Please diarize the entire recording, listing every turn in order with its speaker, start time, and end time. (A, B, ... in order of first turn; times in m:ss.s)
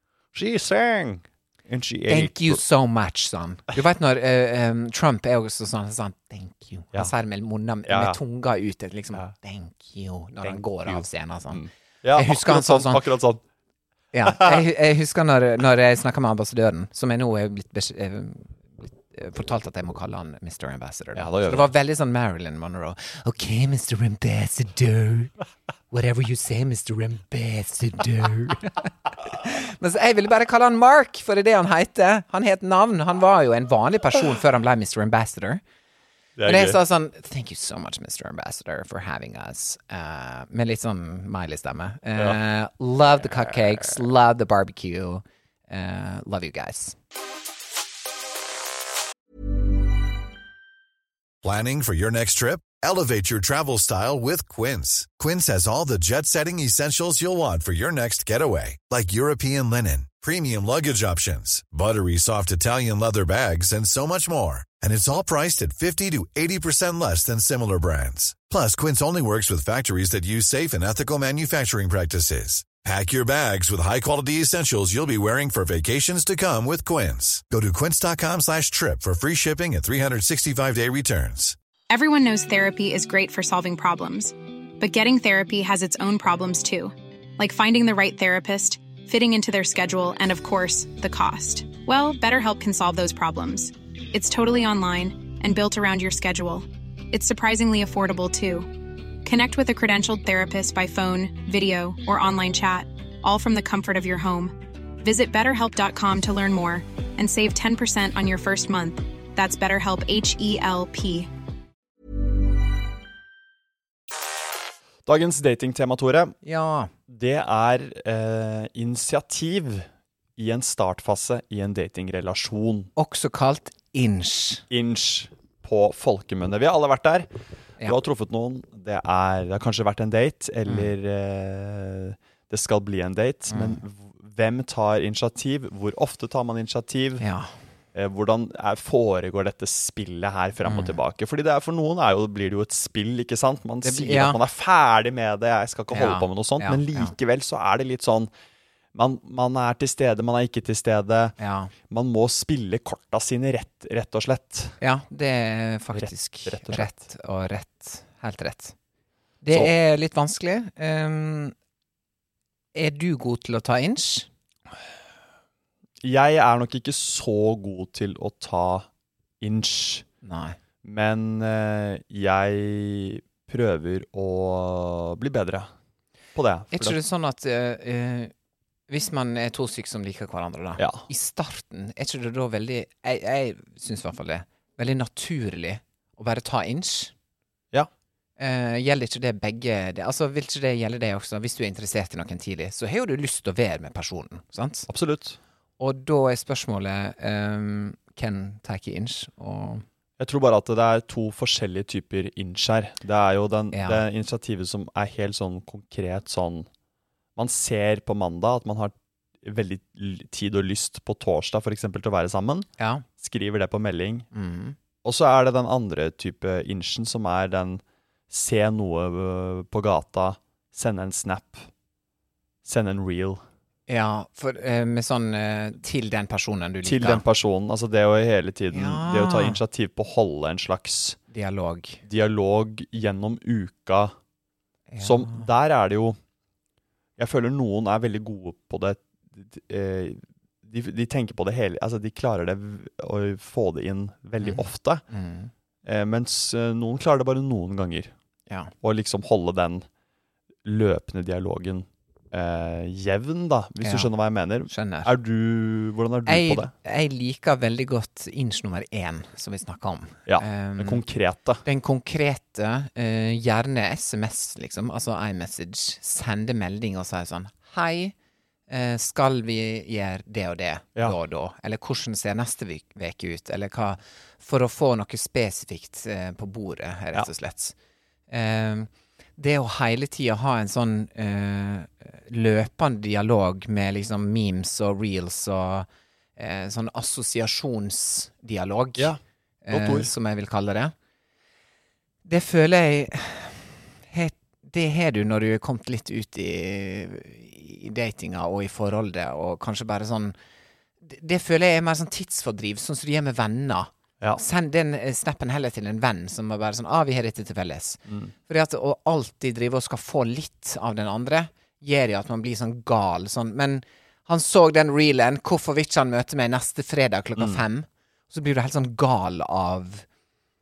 0:00.3-0:02.6 A
0:02.1-0:13.0 B
0:07.8-0:08.2 A
0:10.4-0:13.4 A
0:14.1-0:25.3 B
0:14.2-0:14.6 A
0:21.1-0:21.7 A
0:25.9-0:35.6 B
0:36.4-0:36.8 A
0:36.4-0:47.0 B
0:51.4-1:21.6 C
1:21.9-1:38.7 D
1:39.2-1:51.3 D
1:55.0-1:56.4 A
1:56.4-1:56.9 B
1:57.1-2:02.9 A
2:03.0-2:04.6 B
2:04.7-2:07.3 A
2:07.8-2:17.2 A
2:10.6-2:10.9 B
2:13.5-2:13.8 B
2:17.2-2:17.5 B
2:17.9-2:28.3 A
2:20.6-2:21.0 B
2:23.8-2:24.4 B
2:25.9-2:27.1 B
2:28.9-2:31.3 A
2:31.4-2:31.7 B
2:31.9-2:34.8 A
2:34.8-2:38.7 B
2:35.9-2:36.9 A
2:39.4-2:41.5 B
2:42.7-2:44.3 B
2:46.0-2:48.9 A
2:49.4-2:50.0 A
2:50.2-2:50.6 B
2:50.8-2:55.7 A
2:56.3-2:57.0 A
2:56.7-2:58.3 B
2:58.9-3:07.1 B
3:00.8-3:01.0 A
3:08.4-3:14.9 B
3:14.9-3:15.4 A
3:15.8-3:19.8 B
3:20.2-3:26.7 A
3:23.7-3:24.0 B
3:27.4-3:32.7 A
3:32.8-3:33.0 B
3:33.2-3:34.3 A
3:34.3-3:34.8 B
3:35.0-3:41.7 A
3:42.6-3:43.4 A
3:43.9-3:47.2 B
3:46.8-3:51.2 A
3:48.7-3:49.6 B
3:51.3-3:52.0 B
3:52.0-3:54.1 A
3:54.9-3:55.5 B
3:55.0-3:56.2 A
3:57.2-4:05.0 A
4:04.4-4:05.5 B
4:05.8-4:08.1 A
4:08.5-4:08.7 B
4:08.8-4:09.8 A
4:10.6-4:16.7 A
4:13.8-4:14.1 B
4:14.7-4:15.1 B
4:16.2-4:21.0 B
4:20.3-4:21.6 A
4:21.6-4:28.1 B
4:28.7-4:37.7 B
4:38.3-4:49.1 B
4:49.6-4:50.9 B
4:49.7-4:50.1 A
4:52.2-5:00.3 B
5:01.0-5:20.0 B
5:08.1-5:08.3 A
5:17.4-5:17.6 A